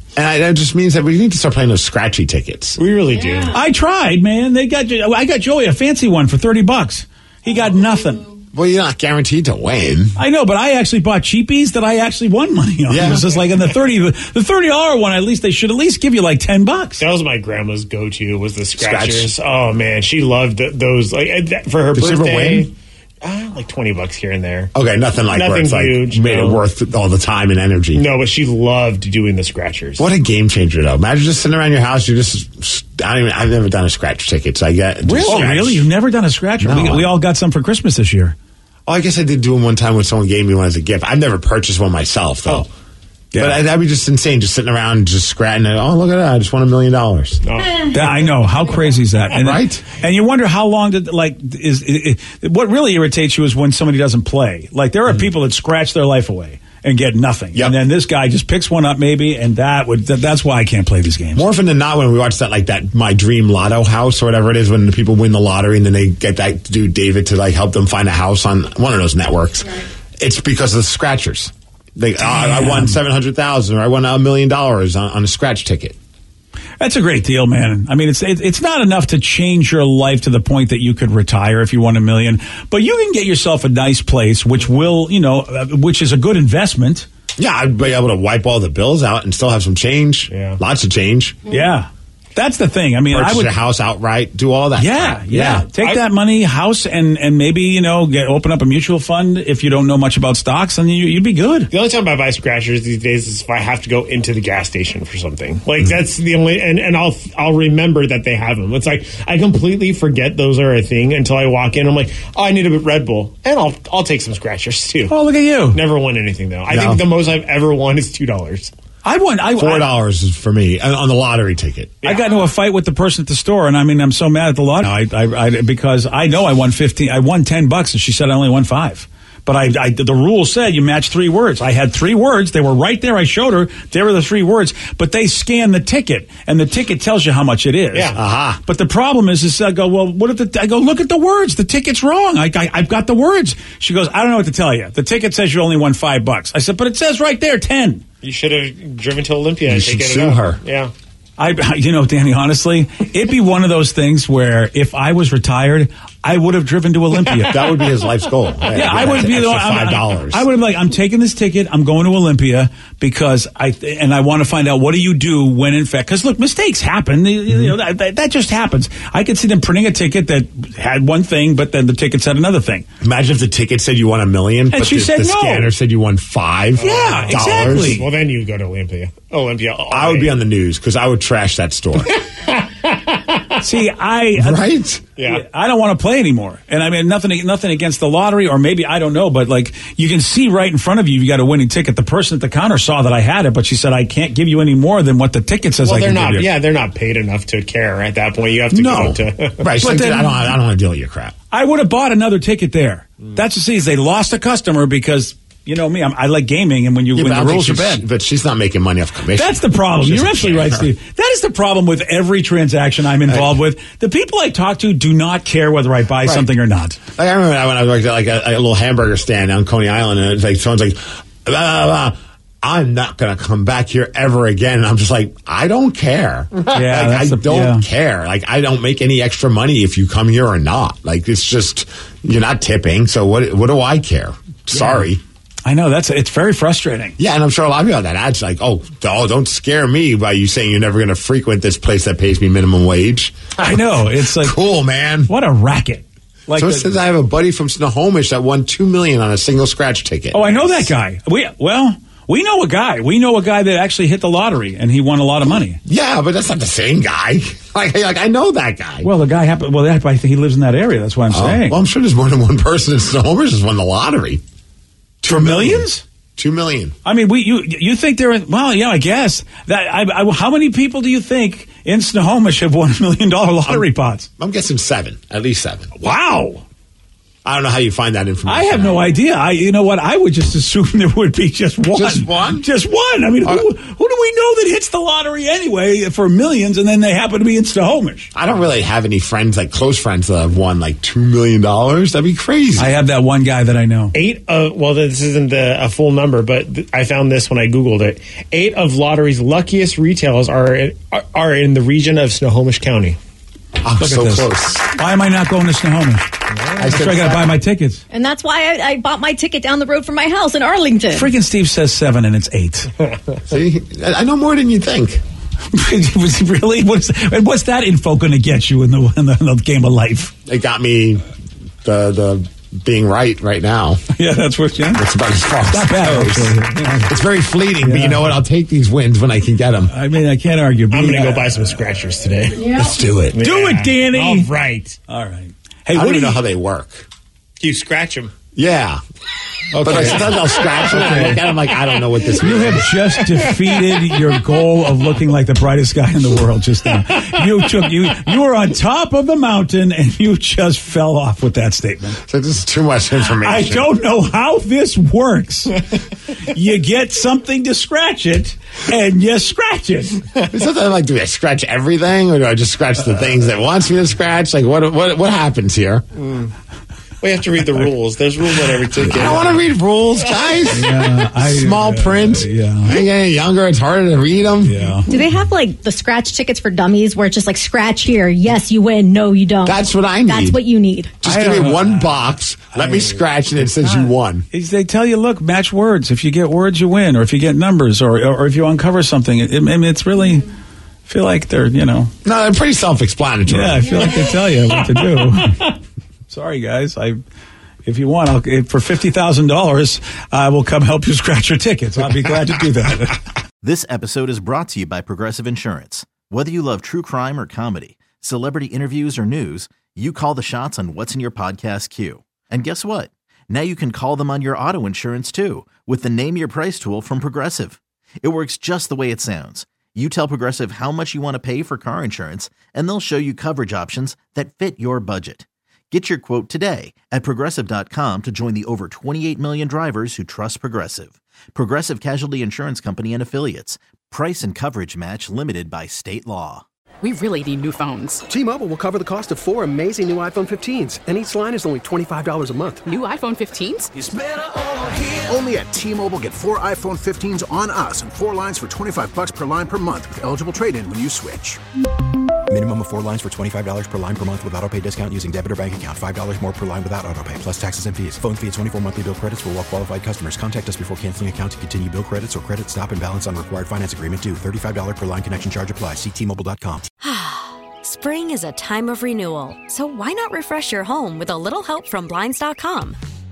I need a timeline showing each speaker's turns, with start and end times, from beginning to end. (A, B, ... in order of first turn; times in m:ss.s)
0:00.1-0:02.8 A
0:02.8-0:03.6 B
0:03.5-0:08.3 C
0:08.5-0:10.2 A
0:10.2-0:17.0 C
0:12.9-0:13.3 A
0:17.0-0:24.7 B
0:18.8-0:19.3 A
0:22.0-0:22.7 A
0:24.7-0:28.0 A
0:25.3-0:26.6 B
0:27.9-0:30.0 B
0:30.0-0:35.9 A
0:35.0-0:38.4 C
0:36.6-0:37.1 A
0:38.9-0:42.7 A
0:43.3-0:43.6 C
0:43.4-0:47.4 A
0:47.4-0:48.4 B
0:47.9-1:01.4 C
0:49.4-0:49.8 A
1:01.4-1:16.0 A
1:12.3-1:13.0 C
1:16.8-1:27.1 C
1:27.4-1:31.4 A
1:30.3-1:30.6 B
1:31.5-1:33.5 C
1:33.1-1:35.7 A
1:34.8-1:41.7 C
1:35.8-1:36.0 B
1:41.7-1:55.1 B
1:55.1-1:55.8 C
1:55.7-1:58.7 B
1:56.7-1:57.0 A
1:59.0-1:59.9 C
1:59.6-2:02.0 A
2:02.0-2:02.5 B
2:02.1-2:18.1 C
2:17.9-2:18.2 B
2:18.1-2:18.6 A
2:18.6-2:28.0 C
2:28.2-2:30.9 B
2:29.7-2:30.6 A
2:31.4-2:37.8 C
2:37.5-2:40.4 A
2:38.7-2:52.9 C
2:53.0-2:58.0 A
2:54.7-2:55.7 C
2:56.8-3:00.3 B
2:56.8-2:58.1 C
2:59.9-3:02.1 A
3:02.1-3:03.5 B
3:03.6-3:04.6 C
3:04.4-3:05.0 A
3:05.2-3:05.4 B
3:05.2-3:16.6 C
3:15.8-3:19.7 B
3:18.7-3:21.3 A
3:19.8-3:20.5 C
3:21.5-3:28.0 C
3:27.1-3:30.9 A
3:29.3-3:37.0 C
3:33.2-3:33.6 A
3:37.1-3:55.2 A
3:46.7-3:47.8 C
3:54.7-3:55.0 C
3:55.6-3:57.2 C
3:57.2-4:05.3 A
4:03.6-4:04.6 C
4:05.3-4:06.9 C
4:06.6-4:10.9 A
4:10.3-4:15.8 C
4:15.8-4:19.1 A
4:19.0-4:21.7 C
4:21.3-4:24.4 A
4:25.2-4:26.9 A
4:25.2-4:26.0 C
4:27.0-4:34.3 C
4:34.4-4:35.9 A
4:36.0-4:36.6 C
4:37.4-4:39.0 A
4:38.4-4:48.3 C
4:41.9-4:42.7 A
4:48.3-4:52.9 A
4:52.8-4:54.2 C
4:54.1-5:03.2 B
5:03.8-5:04.9 A
5:04.0-5:08.0 C
5:06.8-5:07.6 A
5:08.1-5:11.3 D
5:11.1-5:12.9 C
5:13.5-5:15.2 A
5:15.7-5:20.3 C
5:20.4-5:21.2 A
5:21.8-5:24.0 A
5:24.1-5:25.0 C
5:24.9-5:29.9 A
5:25.7-5:27.1 C
5:27.8-5:28.4 C
5:29.9-5:31.8 C
5:30.9-5:32.7 B
5:32.7-5:33.4 A
5:33.3-5:35.0 B
5:33.4-5:34.5 C
5:35.1-5:36.4 C
5:35.9-5:37.1 A
5:37.6-5:38.3 B
5:38.5-5:39.0 A
5:39.7-5:41.4 C
5:39.8-5:42.9 A
5:39.8-5:41.1 B
5:42.4-5:52.2 C
5:43.2-5:44.4 B
5:52.2-5:53.9 A
5:53.2-6:00.2 C
6:00.5-6:06.0 A
6:06.2-6:06.5 B
6:07.2-6:09.6 B
6:09.0-6:14.8 A
6:10.2-6:10.6 B
6:10.7-6:13.0 C
6:14.6-6:15.1 C
6:15.1-6:21.2 D
6:19.6-6:20.6 A
6:21.2-6:24.4 A
6:21.2-6:30.5 C
6:31.0-6:32.1 C
6:32.2-6:34.0 A
6:33.5-6:35.8 C
6:36.3-6:37.2 C
6:37.8-6:43.2 C
6:43.6-7:16.6 E
7:17.0-7:18.2 F
7:18.3-7:22.9 G
7:22.9-7:23.9 F
7:23.9-7:31.6 H
7:32.5-7:46.9 I
7:47.0-7:53.0 J